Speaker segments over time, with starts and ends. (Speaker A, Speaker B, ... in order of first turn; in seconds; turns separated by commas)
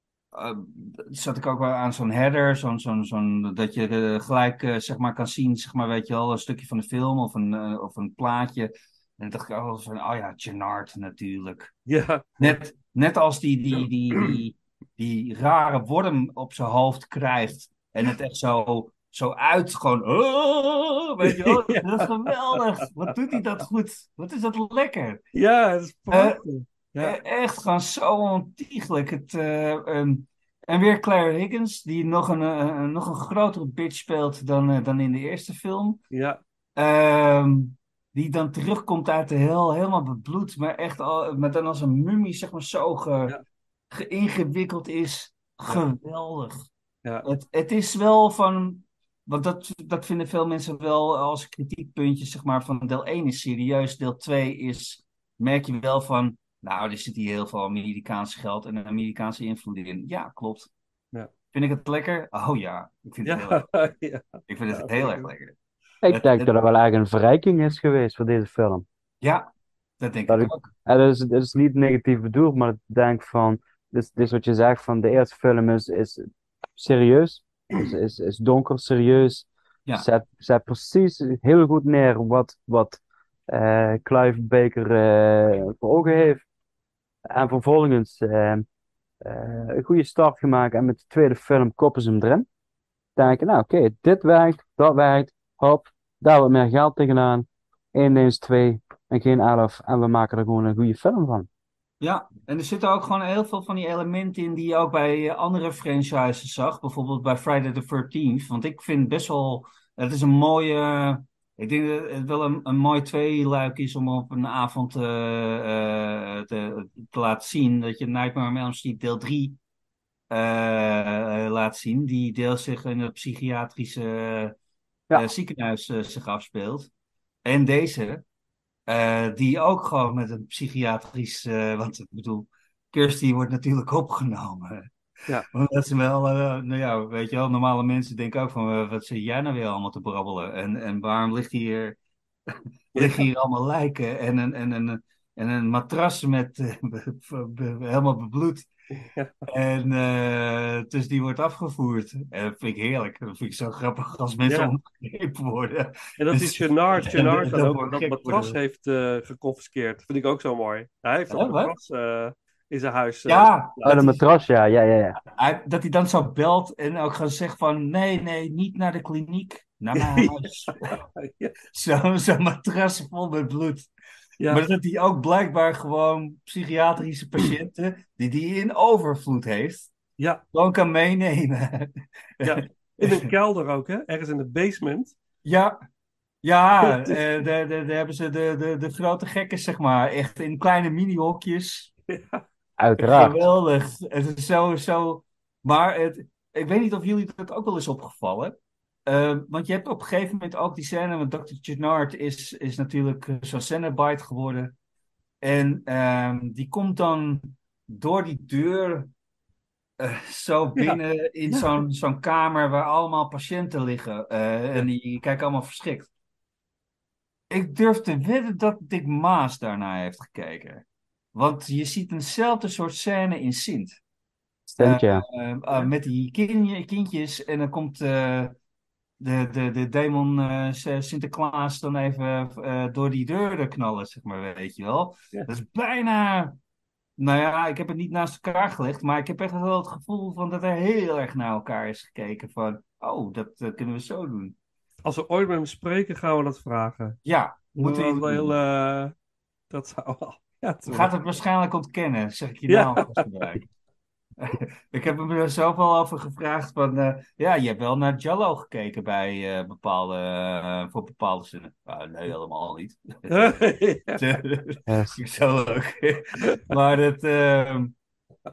Speaker A: 0.3-11.7, Speaker B: 11.9-12.6, Speaker A: 12.4-25.2, Speaker B: 21.2-22.6, Speaker B: 25.3-27.1, Speaker A: 26.1-26.4, Speaker A: 27.0-36.0, Speaker B: 36.1-36.4, Speaker A: 36.8-43.4, Speaker A: 43.9-46.7, Speaker A: 47.2-60.7, Speaker A: 61.5-63.7, Speaker B: 63.2-65.3, Speaker A: 64.5-66.5, Speaker C: 66.0-68.8, Speaker A: 69.2-69.5, Speaker A: 70.0-70.7, Speaker C: 70.3-86.4, Speaker C: 87.3-88.6, Speaker C: 89.2-92.5, Speaker C: 93.2-101.5, Speaker A: 102.0-119.6, Speaker A: 120.3-124.5, Speaker A: 125.1-126.9, Speaker A: 127.4-128.2, Speaker A: 128.9-134.9, Speaker A: 135.5-141.9, Speaker A: 142.5-148.7, Speaker B: 142.9-143.2, Speaker B: 149.0-149.3, Speaker A: 149.5-158.6, Speaker B: 154.5-154.7, Speaker B: 156.2-164.0, Speaker A: 161.3-161.7, Speaker A: 163.3-164.2, Speaker C: 163.8-165.2, Speaker A: 165.4-170.9, Speaker B: 169.9-171.6, Speaker A: 171.7-173.9, Speaker B: 174.4-174.6, Speaker A: 174.5-179.9, Speaker A: 180.5-183.3, Speaker B: 182.4-185.1, Speaker A: 185.4-185.8, Speaker A: 186.4-191.9, Speaker B: 186.8-187.2, Speaker B: 192.1-192.4, Speaker C: 192.8-193.3, Speaker A: 193.0-204.7, Speaker A: 205.4-209.1, Speaker A: 210.0-216.1, Speaker A: 217.5-224.0, Speaker C: 224.7-225.2, Speaker A: 224.8-228.5, Speaker A: 229.2-236.6, Speaker A: 237.2-244.6, Speaker B: 245.0-247.2, Speaker A: 247.2-248.5, Speaker B: 247.8-249.1, Speaker B: 249.7-251.1, Speaker A: 250.9-253.6, Speaker B: 252.7-253.3, Speaker A: 254.4-263.6, Speaker B: 263.3-264.2, Speaker A: 264.2-267.9, Speaker C: 264.9-265.2